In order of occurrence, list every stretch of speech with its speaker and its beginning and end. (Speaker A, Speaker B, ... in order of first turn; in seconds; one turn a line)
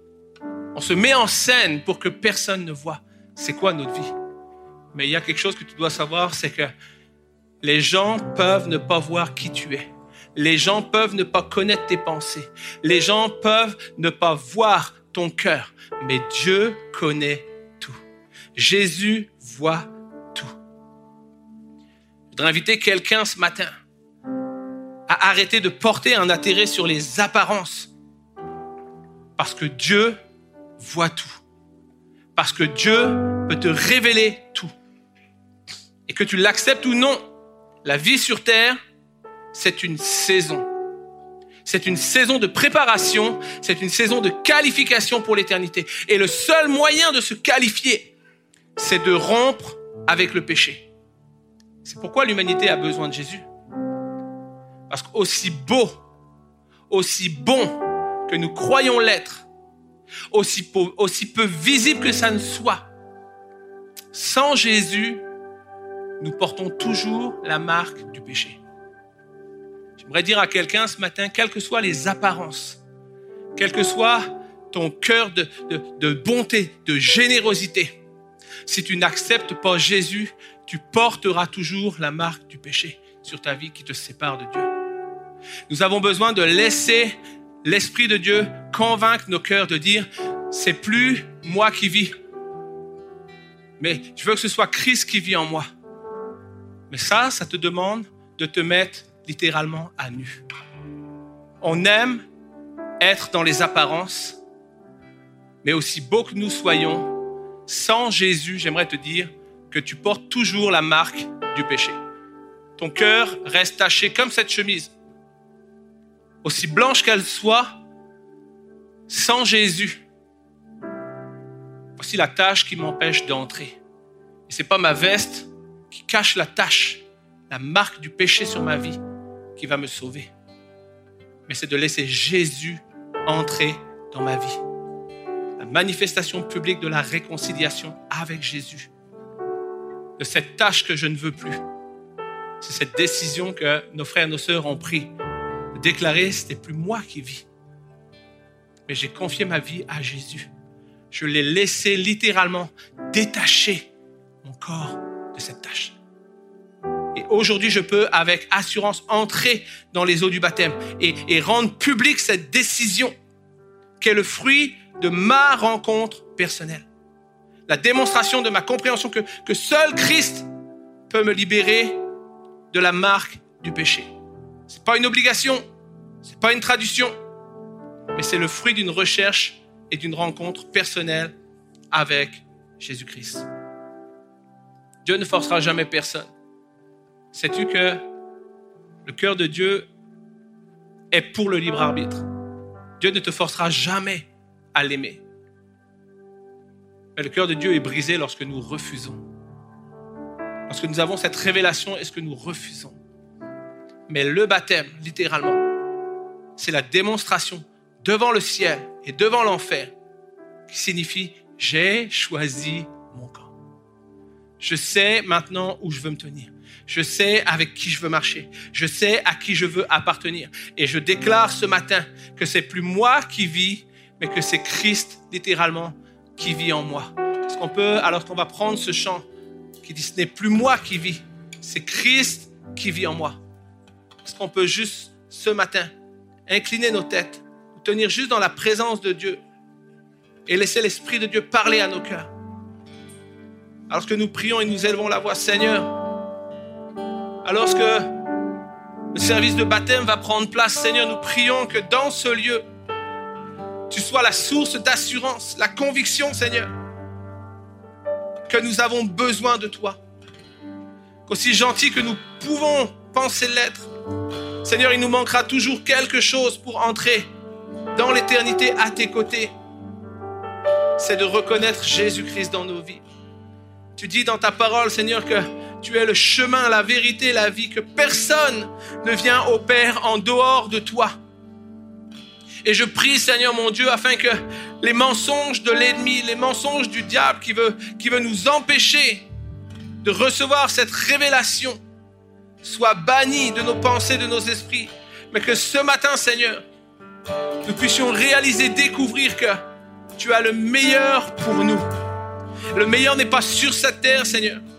Speaker A: 0.7-4.1
Speaker A: 4.9-6.7
Speaker A: 7.6-18.0
Speaker A: 18.6-20.6
Speaker A: 22.3-23.7
Speaker A: 25.1-27.9
Speaker A: 29.4-30.2
Speaker A: 30.8-31.4
Speaker A: 32.4-34.7
Speaker A: 36.1-37.2
Speaker A: 37.9-38.8
Speaker A: 39.5-40.7
Speaker A: 41.6-48.1
Speaker A: 48.8-50.9
Speaker A: 51.8-53.5
Speaker A: 54.9-56.0
Speaker A: 56.9-59.5
Speaker A: 60.3-62.9
Speaker A: 64.1-65.2
Speaker A: 66.2-68.6
Speaker A: 70.0-72.8
Speaker A: 73.6-78.0
Speaker A: 78.7-84.7
Speaker A: 85.7-92.1
Speaker A: 93.8-95.7
Speaker A: 96.9-100.4
Speaker A: 101.6-102.2
Speaker A: 103.0-104.4
Speaker A: 105.6-107.1
Speaker A: 107.7-112.0
Speaker A: 112.8-115.0
Speaker A: 116.4-117.8
Speaker A: 119.1-120.0
Speaker A: 122.0-123.8
Speaker A: 124.5-129.0
Speaker A: 129.6-130.3
Speaker A: 131.5-134.6
Speaker A: 135.6-138.9
Speaker A: 140.2-141.6
Speaker A: 142.6-145.1
Speaker A: 145.8-147.5
Speaker A: 148.9-150.5
Speaker A: 151.1-153.9
Speaker A: 154.4-156.0
Speaker A: 157.2-163.2
Speaker A: 164.0-166.9
Speaker A: 167.7-170.5
Speaker A: 171.1-172.0
Speaker A: 172.7-174.1
Speaker A: 174.7-175.6
Speaker A: 176.2-177.2
Speaker A: 178.1-181.3
Speaker A: 181.9-183.5
Speaker A: 185.0-186.3
Speaker A: 187.3-188.0
Speaker A: 189.1-189.9
Speaker A: 191.1-192.2
Speaker A: 193.0-195.2
Speaker A: 197.2-199.2
Speaker A: 200.7-203.0
Speaker A: 204.1-205.6
Speaker A: 206.6-209.9
Speaker A: 210.7-213.5
Speaker A: 214.6-229.3
Speaker A: 229.8-233.4
Speaker A: 234.2-235.9
Speaker A: 236.5-239.4
Speaker A: 240.5-242.3
Speaker A: 243.9-245.9
Speaker A: 247.4-248.1
Speaker A: 249.1-252.7
Speaker A: 253.9-256.7
Speaker A: 258.5-260.0
Speaker A: 261.3-263.9
Speaker A: 264.6-267.3
Speaker A: 267.9-269.5
Speaker A: 271.0-273.0
Speaker A: 274.0-281.1
Speaker A: 282.6-289.3
Speaker A: 290.0-291.8
Speaker A: 292.6-296.6
Speaker A: 297.6-299.6
Speaker A: 300.2-301.9
Speaker A: 302.7-304.6